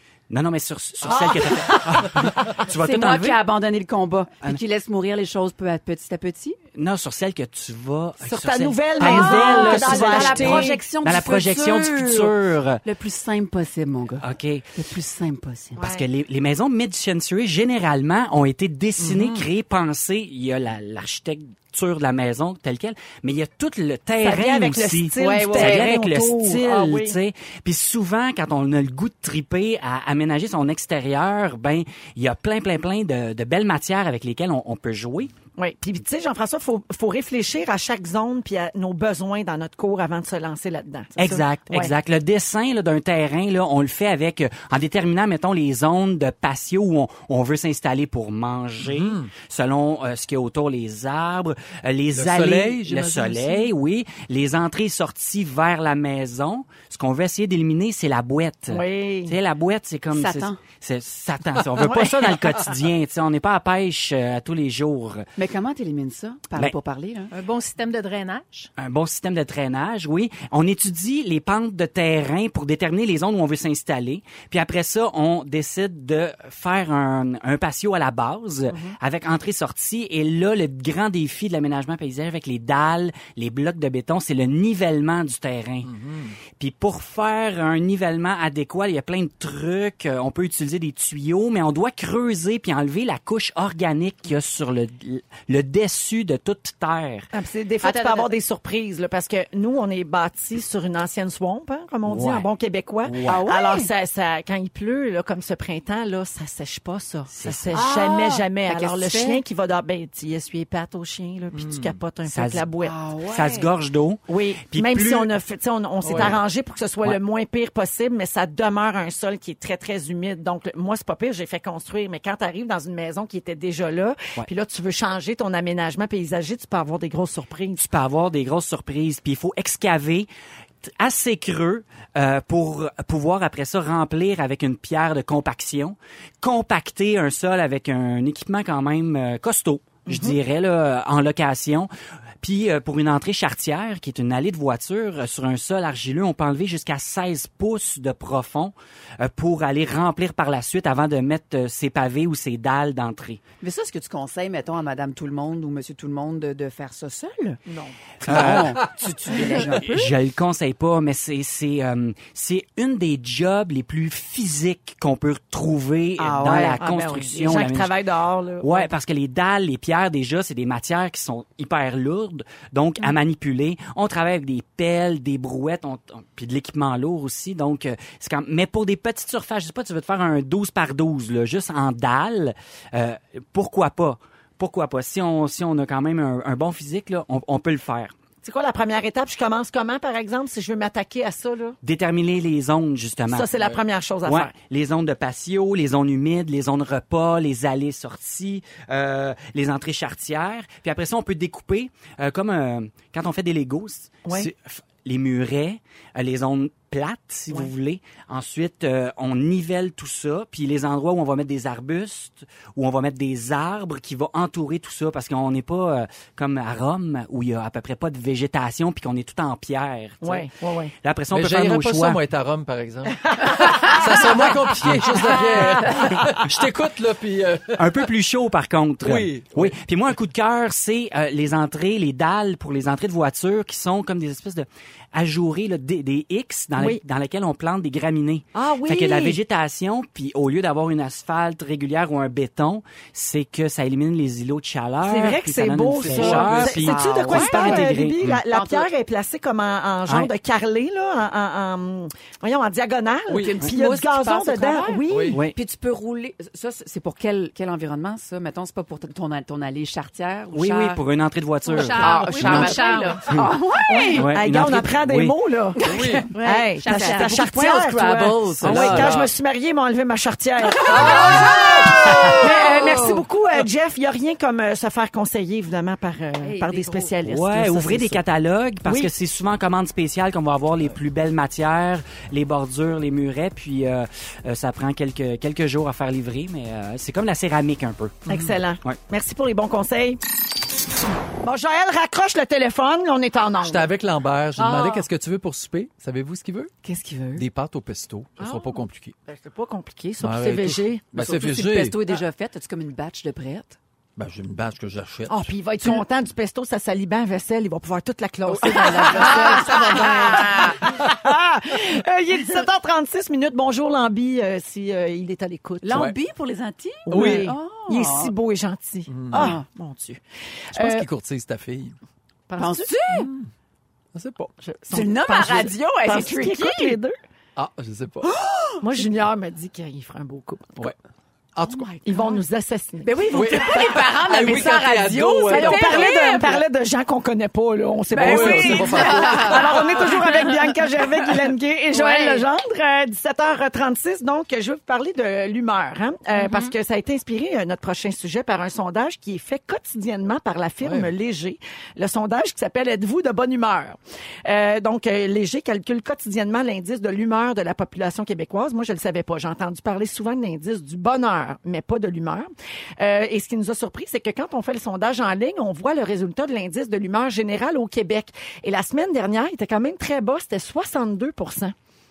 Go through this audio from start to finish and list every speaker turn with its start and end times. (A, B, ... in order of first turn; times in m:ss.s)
0:00.3-0:03.4 A
0:01.1-0:01.6 B
0:01.4-0:06.6 C
0:06.8-0:12.8 A
0:08.2-0:10.8 B
0:09.0-0:15.9 C
0:14.2-0:14.7 A
0:15.8-0:16.0 B
0:15.8-0:35.3 A
0:19.0-0:19.4 D
0:24.2-0:27.2 B
0:25.2-0:25.9 C
0:35.6-0:41.9 B
0:41.2-1:05.3 A
0:48.8-0:49.3 D
0:52.1-0:53.7 D
0:58.7-0:59.4 B
1:00.1-1:00.6 C
1:01.8-1:02.4 B
1:05.4-1:07.3 C
1:07.3-1:08.7 E
1:08.8-1:26.0 A
1:25.9-1:26.4 D
1:26.6-1:37.3 A
1:37.3-1:53.0 B
1:37.8-1:38.3 C
1:42.1-1:42.5 A
1:43.0-1:43.4 A
1:43.3-1:43.9 C
1:47.3-1:47.8 A
1:47.7-1:49.4 C
1:51.6-1:51.9 D
1:52.3-1:52.7 A
1:52.8-1:53.7 C
1:53.2-1:55.3 A
1:54.3-2:07.8 B
1:56.0-1:56.3 D
2:07.8-2:10.3 A
2:10.8-2:21.9 A
2:20.1-2:20.4 B
2:22.4-2:33.4 A
2:33.6-2:37.6 C
2:37.7-2:38.0 B
2:38.2-2:40.1 C
2:38.2-2:48.0 A
2:38.3-2:39.0 D
2:46.2-2:46.8 C
2:46.3-2:48.9 B
2:48.6-3:08.1 A
3:08.4-3:11.8 B
3:11.8-3:13.5 A
3:13.3-3:14.5 B
3:14.2-3:40.5 A
3:40.2-3:40.9 B
3:41.0-3:42.2 A
3:41.3-3:47.9 D
3:47.8-4:08.2 A
3:49.0-3:49.8 D
3:56.8-3:57.0 B
3:58.6-3:59.4 B
4:05.0-4:15.4 B
4:06.0-4:07.0 D
4:06.9-4:07.8 C
4:08.5-4:08.9 C
4:13.3-4:21.0 C
4:15.1-4:15.4 D
4:20.5-4:22.8 A
4:21.7-4:23.4 E
4:21.8-4:24.3 C
4:23.9-4:25.8 B
4:24.1-4:25.3 A
4:25.8-4:29.1 C
4:25.8-4:26.3 D
4:26.3-4:31.5 B
4:26.3-4:27.4 E
4:28.6-4:29.1 A
4:28.7-4:29.3 D
4:30.7-4:33.2 C
4:30.8-4:32.3 D
4:32.1-4:38.2 B
4:36.4-4:37.1 E
4:37.2-4:48.2 A
4:38.8-4:39.1 B
4:48.3-4:50.2 B
4:51.4-4:53.9 B
4:53.6-4:56.7 D
4:56.8-4:57.5 C
4:57.4-4:59.2 D
4:58.4-5:01.2 B
5:00.2-5:02.1 D
5:01.1-5:03.8 C
5:04.2-5:05.5 D
5:05.3-5:16.1 B
5:08.6-5:10.8 C
5:09.3-5:10.3 D
5:15.8-5:18.3 C
5:17.1-5:20.2 B
5:17.1-5:17.5 D
5:19.1-5:19.6 D
5:19.3-5:19.6 C
5:20.7-5:21.1 B
5:20.7-5:22.0 D
5:22.5-5:22.9 B
5:22.6-5:23.3 C
5:23.1-5:23.5 D
5:24.1-5:24.5 D
5:24.6-5:27.1 B
5:24.9-5:27.0 C
5:27.6-5:28.4 D
5:28.2-5:28.8 C
5:28.8-5:30.9 B
5:31.6-5:32.0 D
5:32.0-5:33.4 B
5:33.0-5:36.6 C
5:33.3-5:36.2 D
5:35.5-6:11.8 B
5:38.1-5:39.9 D
5:38.1-5:40.0 C
5:38.9-5:39.5 E
5:41.9-5:42.4 E
5:46.4-5:46.7 E
5:50.8-5:51.1 D